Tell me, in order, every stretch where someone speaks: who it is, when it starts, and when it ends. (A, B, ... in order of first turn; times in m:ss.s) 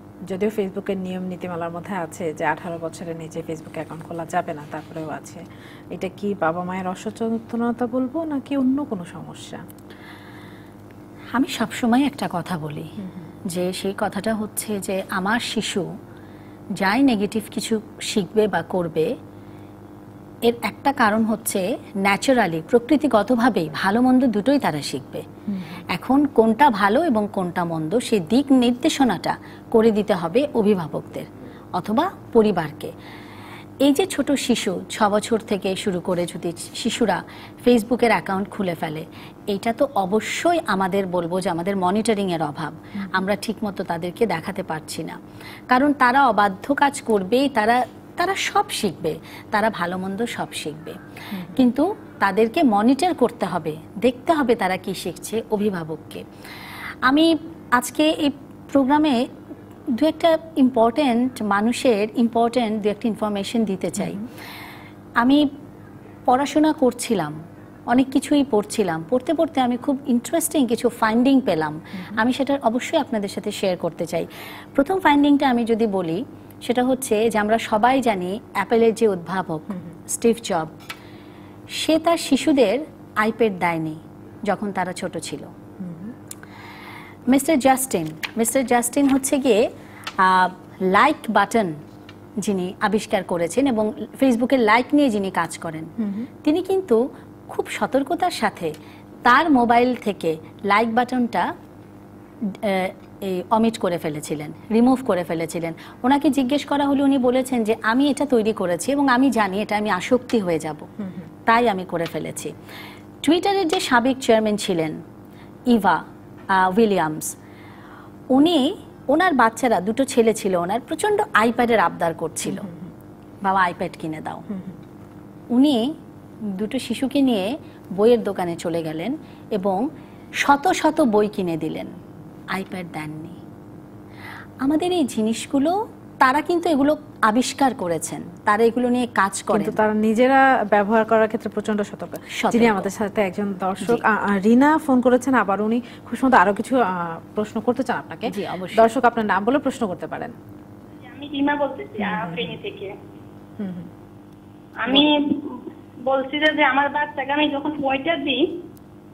0:00.3-0:09.6 A
0:11.3-0:12.9 B
0:13.5-0:15.9 B
0:16.8-0:19.1 B
0:20.4-0:25.2 B
0:25.5-0:25.8 A
0:25.9-0:32.9 B
0:33.8-0:45.2 B
0:45.7-0:51.0 B
0:51.3-0:51.6 A
0:51.5-0:56.2 B
0:57.1-0:59.2 B
1:00.0-1:04.2 B
1:04.0-1:04.3 A
1:05.2-1:05.5 B
1:06.3-1:07.4 B
1:07.9-1:20.7 B
1:21.7-1:25.5 B
1:25.8-1:26.1 A
1:27.3-1:29.7 B
1:30.2-1:31.8 B
1:32.4-1:35.9 B
1:36.0-1:36.3 A
1:36.4-1:38.7 B
1:39.2-1:41.5 B
1:42.4-1:50.9 B
1:51.0-1:51.3 A
1:51.5-1:52.5 B
1:53.2-1:55.0 B
1:55.7-1:57.4 B
1:58.3-2:02.7 B
2:02.5-2:02.9 A
2:03.4-2:04.4 B
2:04.5-2:04.8 A
2:05.5-2:05.9 B
2:06.5-2:09.8 B
2:10.4-2:12.0 B
2:12.5-2:13.4 B
2:14.6-2:19.8 B
2:19.5-2:30.4 A
2:22.3-2:22.9 B
2:28.3-2:28.9 B
2:31.1-2:33.0 C
2:32.0-2:32.6 A
2:33.6-2:33.9 A
2:34.8-2:38.5 C